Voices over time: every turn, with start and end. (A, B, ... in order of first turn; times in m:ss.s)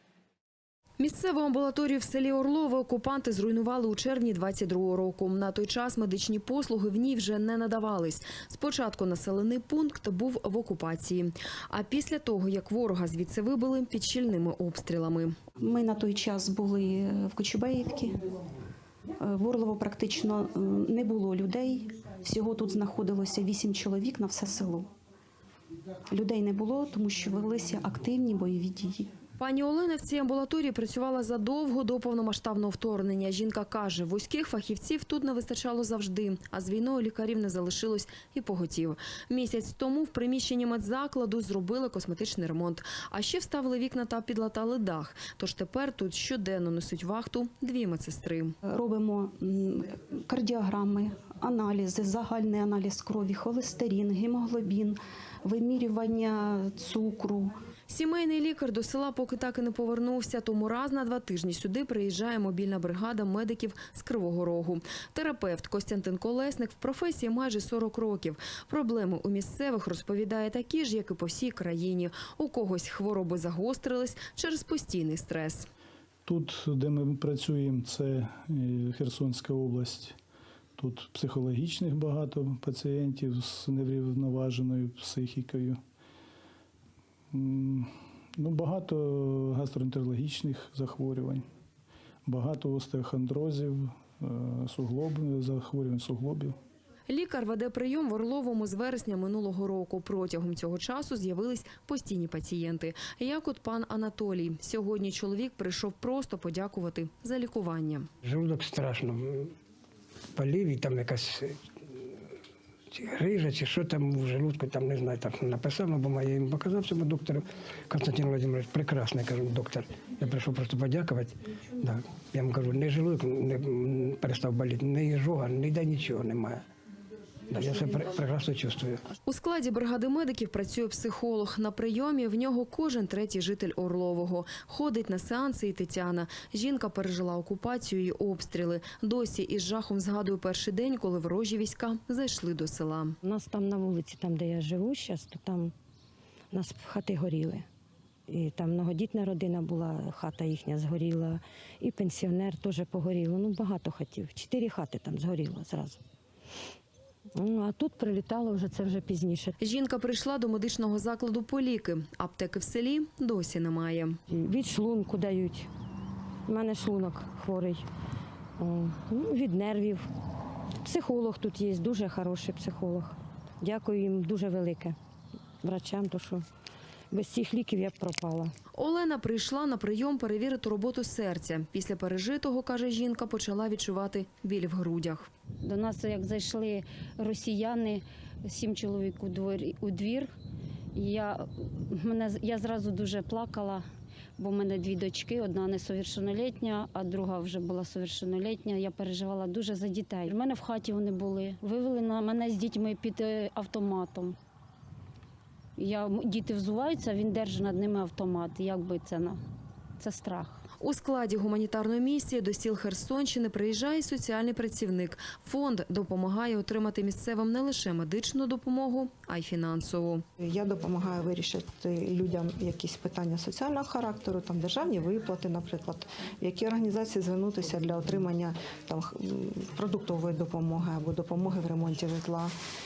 0:01.0-0:15.3 A
0:15.6-0:18.2 B
0:19.2-0:24.9 B
0:26.1-0:29.1 B
0:29.4-0:48.5 A
0:48.6-0:57.6 B
0:57.9-1:15.7 A
1:16.2-1:20.1 C
1:20.8-1:25.8 C
1:27.3-1:31.4 C
1:32.2-1:36.6 C
1:37.1-1:48.1 A
1:48.2-1:49.5 D
1:50.3-1:52.2 D
1:52.9-2:06.6 D
2:07.5-2:09.0 D
2:09.2-2:23.2 A
2:23.2-2:25.7 E
2:26.5-2:27.6 E
2:28.3-2:36.0 E
2:37.4-2:39.5 E
2:39.6-2:44.2 A
2:44.3-2:45.7 E
2:46.4-2:47.9 E
2:48.6-2:50.1 E
2:50.8-2:55.0 E
2:55.6-2:56.4 E
2:57.1-2:58.5 E
2:58.7-3:05.3 A
3:05.6-3:10.3 F
3:10.9-3:13.8 F
3:14.4-3:24.4 F
3:25.8-3:29.4 F
3:30.0-3:30.6 F
3:30.8-3:40.2 A
3:40.4-3:52.5 G